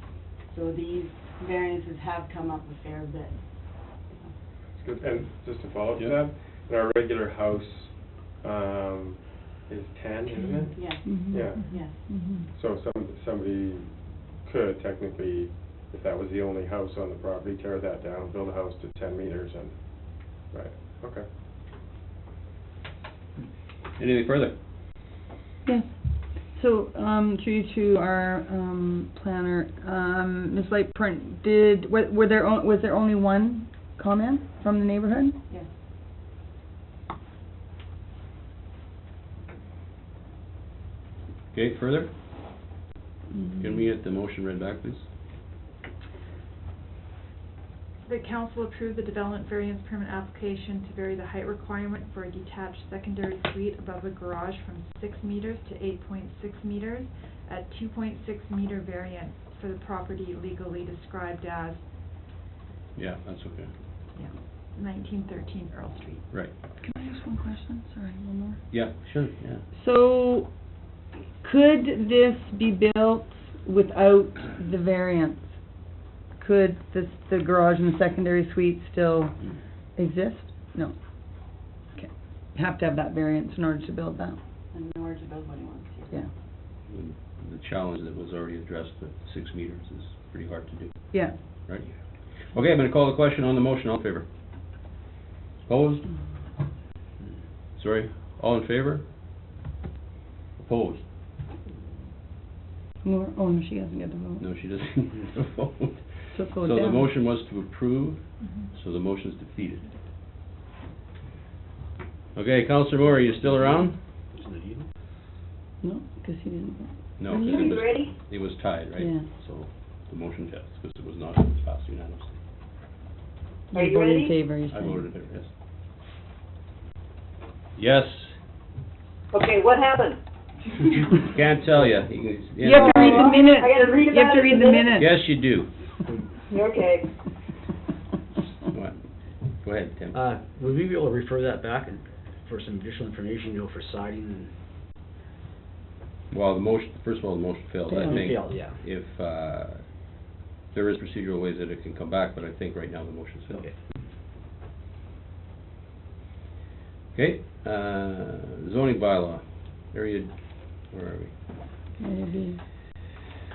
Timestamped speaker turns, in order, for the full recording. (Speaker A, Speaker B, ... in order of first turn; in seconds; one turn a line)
Speaker A: 0.5-4.3
Speaker B: 4.7-11.6
Speaker C: 10.3-10.6
Speaker A: 10.7-12.0
Speaker D: 11.0-12.5
Speaker C: 11.5-11.8
Speaker B: 12.5-21.2
Speaker E: 24.0-24.5
Speaker D: 25.6-35.4
Speaker E: 41.5-42.1
Speaker D: 43.3-43.9
Speaker E: 43.6-45.0
Speaker C: 48.0-61.8
Speaker E: 63.0-63.7
Speaker C: 64.2-66.2
Speaker D: 66.8-68.6
Speaker E: 68.7-69.6
Speaker D: 69.8-70.5
Speaker D: 71.4-75.5
Speaker D: 76.4-79.3
Speaker D: 80.0-84.4
Speaker A: 84.7-86.2
Speaker E: 86.9-91.9
Speaker E: 92.4-94.3
Speaker E: 95.7-96.1
Speaker E: 97.8-99.0
Speaker E: 100.6-101.1
Speaker D: 103.0-104.4
Speaker E: 104.4-109.9
Speaker D: 106.3-107.1
Speaker C: 108.4-108.7
Speaker E: 112.3-114.0
Speaker F: 113.4-114.9
Speaker D: 115.8-117.8
Speaker E: 117.2-122.4
Speaker G: 117.4-118.2
Speaker D: 119.0-119.2
Speaker G: 123.7-124.4
Speaker D: 123.7-125.1
Speaker E: 124.7-125.5
Speaker E: 127.8-128.3
Speaker G: 129.3-130.2
Speaker E: 131.2-133.3
Speaker D: 132.6-135.1
Speaker G: 132.7-135.0
Speaker E: 135.0-135.7
Speaker G: 136.5-137.1
Speaker E: 138.7-139.0
Speaker E: 139.6-140.2
Speaker F: 140.1-144.5
Speaker E: 146.3-149.9
Speaker D: 147.9-148.2
Speaker F: 148.0-148.8
Speaker E: 150.7-153.7
Speaker F: 153.5-153.8
Speaker E: 157.1-161.3
Speaker D: 162.0-162.6